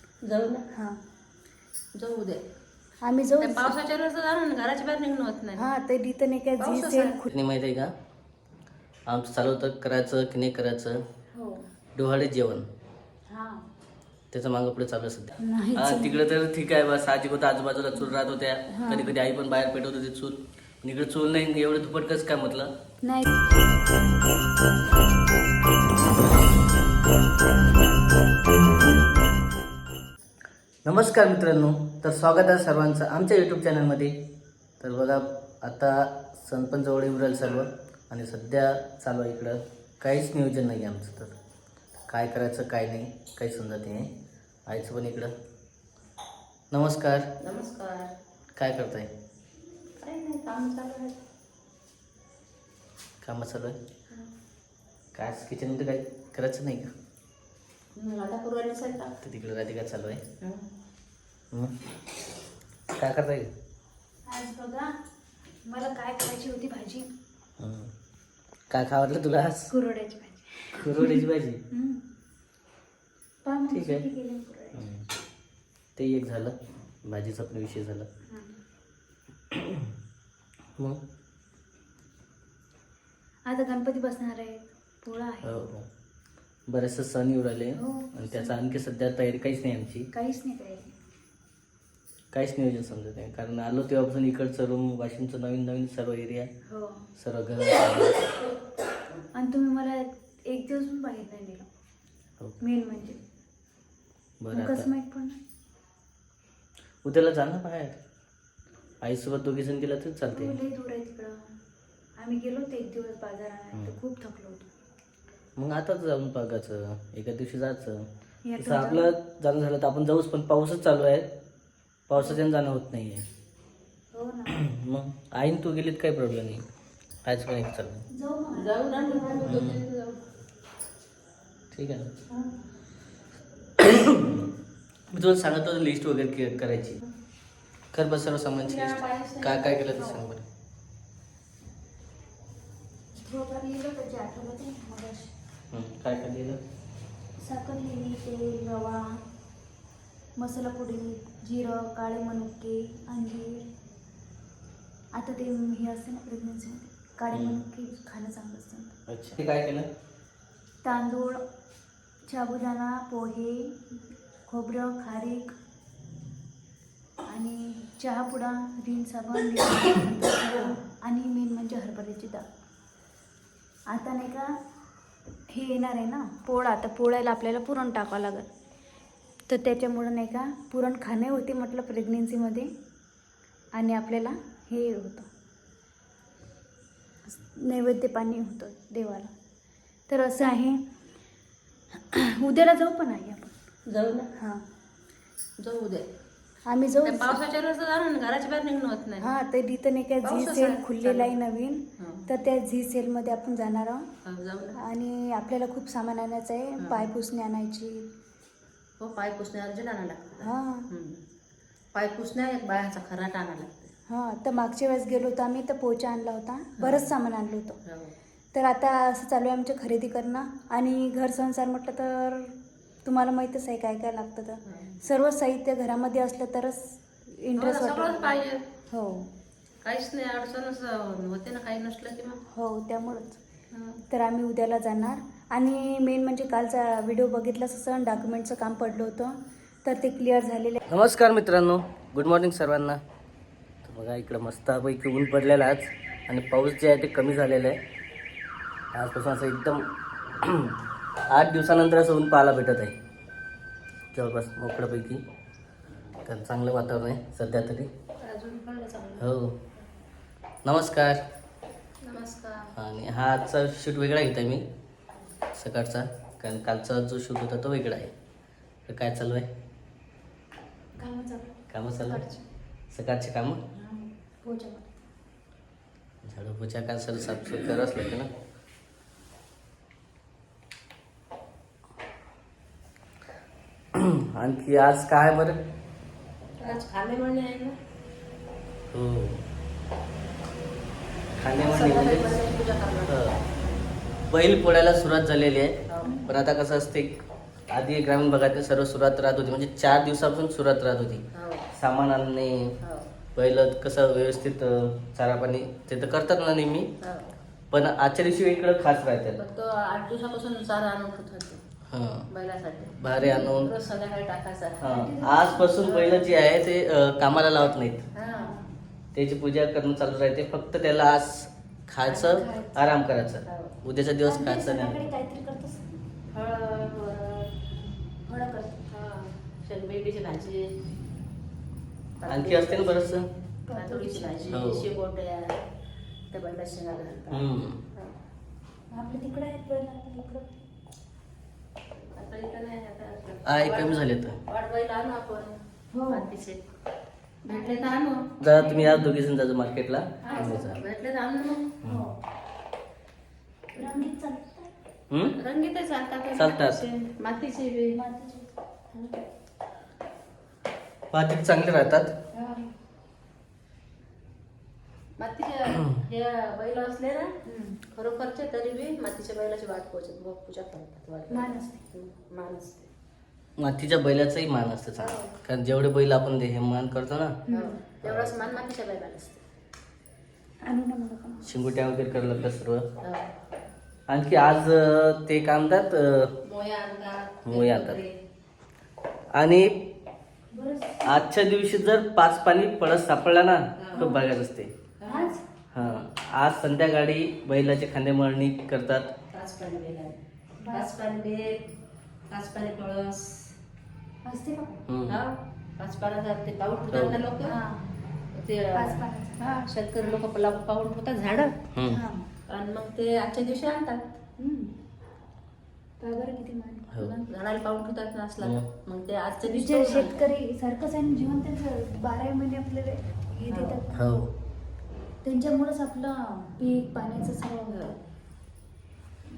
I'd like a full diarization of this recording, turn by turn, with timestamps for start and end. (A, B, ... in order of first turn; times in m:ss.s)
0:00.2-0:00.7 A
0:00.7-0:01.0 B
0:02.0-0:02.4 A
0:03.0-0:03.8 B
0:03.4-0:05.7 A
0:05.6-0:07.3 B
0:06.6-0:07.2 A
0:07.3-0:07.9 C
0:09.1-0:11.0 C
0:11.3-0:11.6 B
0:12.0-0:12.7 C
0:13.3-0:13.7 B
0:14.3-0:22.7 C
0:15.4-0:16.2 B
0:18.7-0:19.1 B
0:23.0-0:23.4 B
0:30.8-0:34.3 C
0:34.8-0:41.3 C
0:42.1-0:44.1 C
0:44.7-0:45.3 C
0:46.7-0:47.3 C
0:47.4-0:48.1 A
0:48.6-0:49.1 C
0:50.0-0:51.2 A
0:53.2-0:53.8 C
0:55.1-0:56.9 C
0:58.0-0:59.2 A
0:59.2-1:00.2 C
1:00.4-1:00.7 A
1:03.0-1:03.5 C
1:04.3-1:04.9 B
1:05.6-1:07.1 B
1:07.6-1:07.9 C
1:08.7-1:09.7 C
1:09.7-1:12.0 B
1:10.8-1:11.6 C
1:13.4-1:14.8 B
1:13.7-1:14.0 C
1:14.8-1:15.1 C
1:16.0-1:18.1 C
1:18.3-1:18.6 B
1:19.5-1:19.9 C
1:23.5-1:25.7 B
1:25.4-1:25.9 C
1:26.7-1:30.1 C
1:27.8-1:28.6 B
1:30.1-1:30.9 B
1:32.3-1:36.5 C
1:36.7-1:37.0 B
1:37.2-1:38.3 C
1:39.4-1:41.7 B
1:42.6-1:43.2 B
1:44.4-1:44.9 C
1:44.5-1:45.4 B
1:47.0-1:48.0 C
1:49.0-1:50.6 C
1:50.3-1:51.4 B
1:52.2-1:54.7 B
1:55.6-1:58.1 C
1:58.4-1:59.1 B
1:58.6-2:01.3 C
2:02.1-2:03.2 C
2:04.1-2:04.6 B
2:04.5-2:06.6 C
2:07.3-2:08.1 C
2:08.1-2:09.7 B
2:08.5-2:10.2 A
2:09.5-2:09.8 C
2:11.7-2:12.1 C
2:13.8-2:14.5 C
2:15.1-2:17.0 C
2:17.9-2:20.5 C
2:18.6-2:20.0 A
2:23.1-2:25.3 B
2:25.7-2:26.6 C
2:27.4-2:29.2 B
2:30.4-2:33.7 B
2:35.1-2:38.9 B
2:37.3-2:37.6 C
2:39.1-2:39.9 C
2:40.8-2:41.4 B
2:42.3-2:43.8 B
2:44.5-2:45.5 B
2:47.3-2:52.5 B
2:53.9-2:54.5 B
2:55.5-2:58.5 B
2:59.5-3:02.7 B
3:03.8-3:05.3 B
3:07.3-3:09.3 B
3:10.1-3:10.8 B
3:12.0-3:13.5 B
3:13.9-3:14.3 A
3:14.4-3:14.6 B
3:15.6-3:16.1 A
3:16.7-3:17.4 B
3:17.0-3:19.3 A
3:19.2-3:24.1 B
3:20.2-3:21.3 A
3:22.0-3:22.3 A
3:24.2-3:24.8 A
3:24.8-3:28.1 B
3:26.8-3:27.1 A
3:29.0-3:31.2 A
3:30.4-3:30.9 B
3:31.9-3:33.9 A
3:34.1-3:37.8 B
3:36.8-3:37.1 A
3:37.9-3:38.1 A
3:38.5-3:42.5 B
3:43.0-3:48.4 B
3:44.7-3:45.0 A
3:47.6-3:48.6 A
3:48.9-3:49.3 B
3:49.8-3:52.4 A
3:52.5-3:53.4 B
3:53.7-3:54.0 A
3:54.1-4:00.8 B
4:00.9-4:03.0 C
4:03.8-4:07.8 C
4:08.9-4:09.9 C
4:10.4-4:10.8 C
4:11.3-4:13.0 C
4:14.1-4:15.2 C
4:16.2-4:17.9 C
4:18.2-4:19.3 A
4:19.2-4:19.6 C
4:20.6-4:21.2 C
4:22.0-4:22.7 A
4:22.7-4:24.6 C
4:25.6-4:28.1 C
4:28.9-4:29.5 C
4:31.0-4:32.4 B
4:31.7-4:32.2 C
4:32.9-4:33.6 C
4:33.8-4:35.0 B
4:36.2-4:38.3 C
4:43.9-4:45.6 C
4:46.6-4:47.8 A
4:48.9-4:49.4 C
4:51.4-4:52.4 C
4:51.6-4:53.3 A
4:53.1-4:53.4 C
4:54.3-4:57.2 C
4:55.9-4:56.2 A
4:56.0-4:56.3 B
4:57.7-5:02.8 C
5:01.4-5:01.7 A
5:02.8-5:03.1 A
5:03.4-5:06.9 C
5:07.0-5:07.4 A
5:07.7-5:09.4 C
5:09.4-5:11.6 A
5:11.9-5:12.3 C
5:12.3-5:14.8 A
5:13.0-5:13.7 C
5:13.2-5:13.6 B
5:14.8-5:18.1 C
5:14.8-5:15.8 B
5:15.8-5:16.2 A
5:18.2-5:18.5 A
5:18.2-5:18.7 B
5:19.1-5:25.0 C
5:22.1-5:22.5 A
5:22.4-5:22.7 B
5:23.4-5:23.7 A
5:24.2-5:26.0 B
5:26.3-5:27.5 A
5:28.2-5:28.8 B
5:28.9-5:30.7 A
5:32.2-5:32.9 A
5:32.3-5:33.3 C
5:33.7-5:34.7 B
5:33.8-5:35.6 A
5:34.5-5:34.9 C
5:36.3-5:38.2 A
5:37.3-5:37.8 C
5:38.9-5:40.6 B
5:42.0-5:46.6 A
5:43.4-5:44.4 C
5:45.9-5:46.3 B
5:47.4-5:48.3 A
5:47.5-5:47.9 B
5:48.4-5:50.8 C
5:48.5-5:49.1 B
5:50.3-5:51.7 A
5:50.3-5:50.7 B
5:51.8-5:52.2 B
5:53.8-5:54.7 B
5:53.8-5:54.1 A
5:55.1-5:55.4 C
5:55.4-5:58.0 A
5:56.3-5:56.8 C
5:58.0-5:58.5 B
6:01.1-6:02.1 C
6:02.4-6:02.7 B
6:05.2-6:07.3 A
6:07.4-6:07.8 B
6:07.9-6:12.9 A
6:11.3-6:11.8 B
6:13.6-6:17.4 C
6:17.5-6:17.8 B
6:17.5-6:19.4 A
6:18.0-6:18.3 C
6:20.6-6:21.5 B
6:21.4-6:22.8 C
6:23.0-6:23.3 A
6:24.1-6:26.3 C
6:26.4-6:28.1 A
6:27.4-6:28.0 C
6:29.4-6:29.8 C
6:30.5-6:31.2 B
6:31.0-6:34.7 C
6:33.8-6:34.1 A
6:34.0-6:34.2 B
6:35.0-6:35.3 A
6:35.1-6:35.4 B
6:35.7-6:39.1 C
6:39.3-6:41.7 A
6:40.6-6:40.9 B
6:42.3-6:43.5 A
6:44.2-6:44.8 B
6:44.9-6:45.2 C
6:45.1-6:47.6 A
6:46.9-6:47.2 C
6:47.4-6:47.9 B
6:48.4-6:51.6 A
6:48.7-6:49.4 B
6:51.7-6:52.0 C
6:51.9-6:52.3 B
6:52.5-6:54.0 A
6:54.4-6:54.7 B
6:56.0-6:57.3 B
6:56.9-6:57.2 C
6:57.3-7:00.2 A
6:59.4-7:04.1 B
7:03.5-7:03.8 A
7:03.9-7:04.3 C
7:05.2-7:08.0 B